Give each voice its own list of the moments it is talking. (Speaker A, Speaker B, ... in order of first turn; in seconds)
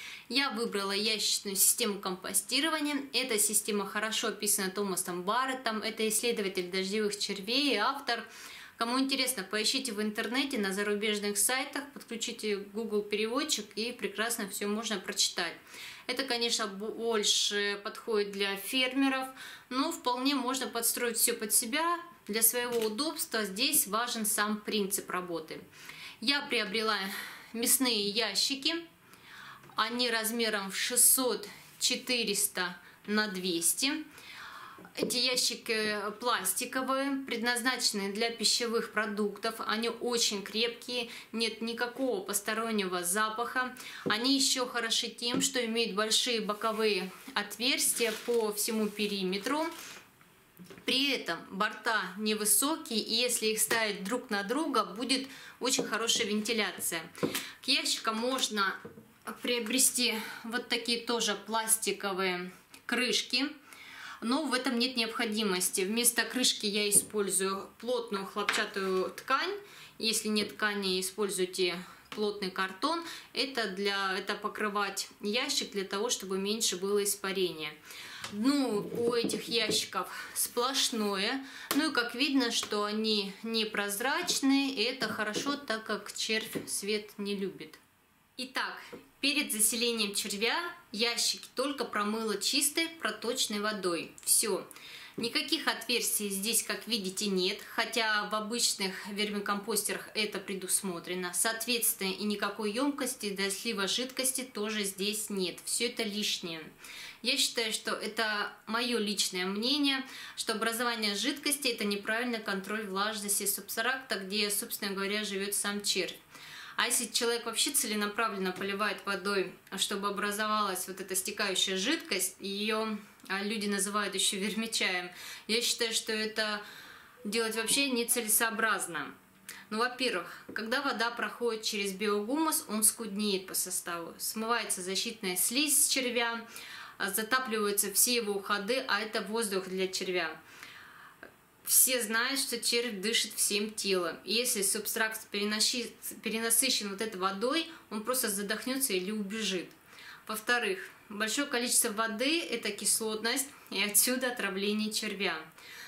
Speaker A: 0.3-25.6, 26.2-28.8, 29.8-34.0, 35.0-49.7, 50.8-57.1, 57.6-63.5, 64.2-77.8, 78.3-87.8, 88.4-94.6, 95.2-116.2, 116.8-126.6, 127.2-129.1, 129.7-136.4, 137.0-140.4, 141.6-155.5